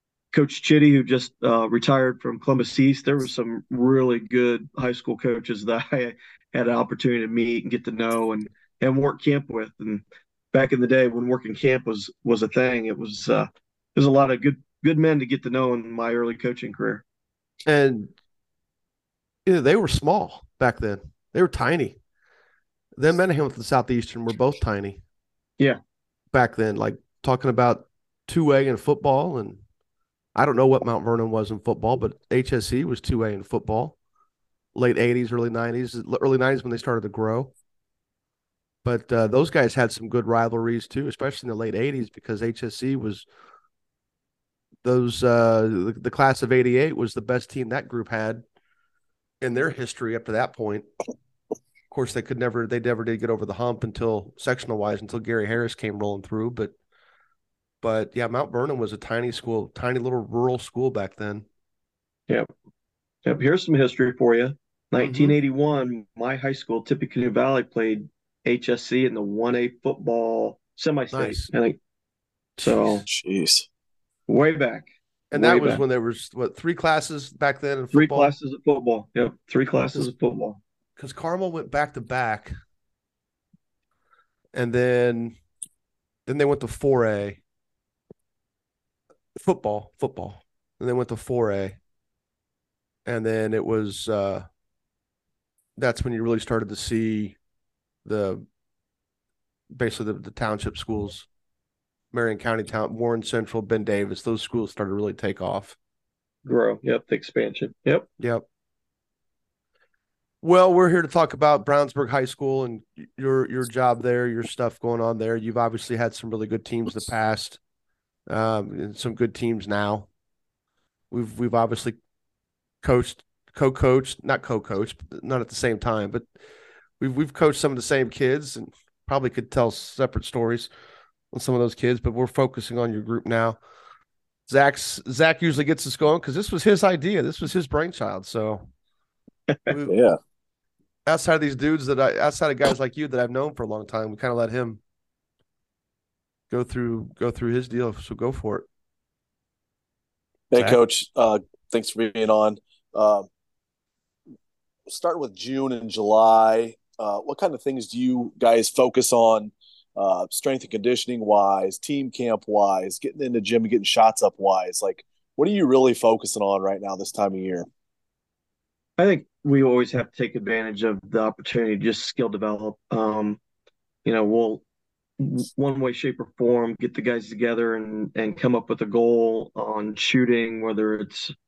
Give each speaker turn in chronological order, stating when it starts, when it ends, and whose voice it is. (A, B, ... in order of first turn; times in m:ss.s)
0:00.3-0:17.0 A
0:17.7-0:18.1 B
0:19.5-0:22.0 B
0:23.0-0:25.0 B
0:26.3-0:29.6 B
0:30.4-0:34.0 B
0:34.8-0:37.5 B
0:38.8-0:43.3 B
0:44.8-0:48.4 B
0:49.4-0:50.9 B
0:51.9-0:56.7 B
0:57.8-1:01.4 B
1:03.2-1:11.8 A
1:05.0-1:05.4 B
1:11.1-1:11.5 B
1:12.6-1:13.0 B
1:12.6-1:13.0 A
1:13.1-1:13.7 C
1:14.3-1:15.8 A
1:15.3-1:18.3 B
1:17.9-1:20.6 A
1:21.0-1:22.5 B
1:24.5-1:25.4 B
1:26.3-1:27.4 B
1:29.4-1:31.8 B
1:33.1-1:34.5 B
1:35.8-1:37.4 B
1:38.0-1:38.4 B
1:39.7-1:41.3 B
1:42.1-1:45.8 B
1:46.4-1:48.1 A
1:48.2-1:48.4 B
1:50.4-1:57.6 B
1:58.3-2:00.1 B
2:01.1-2:02.0 B
2:02.8-2:06.3 B
2:07.0-2:10.7 B
2:11.3-2:13.6 B
2:14.5-2:18.7 B
2:19.7-2:20.0 B
2:19.9-2:20.2 C
2:21.1-2:24.8 B
2:26.5-2:28.7 B
2:30.5-2:33.3 C
2:34.9-2:47.7 C
2:49.0-2:53.4 A
2:54.0-2:54.6 A
2:55.2-3:01.3 A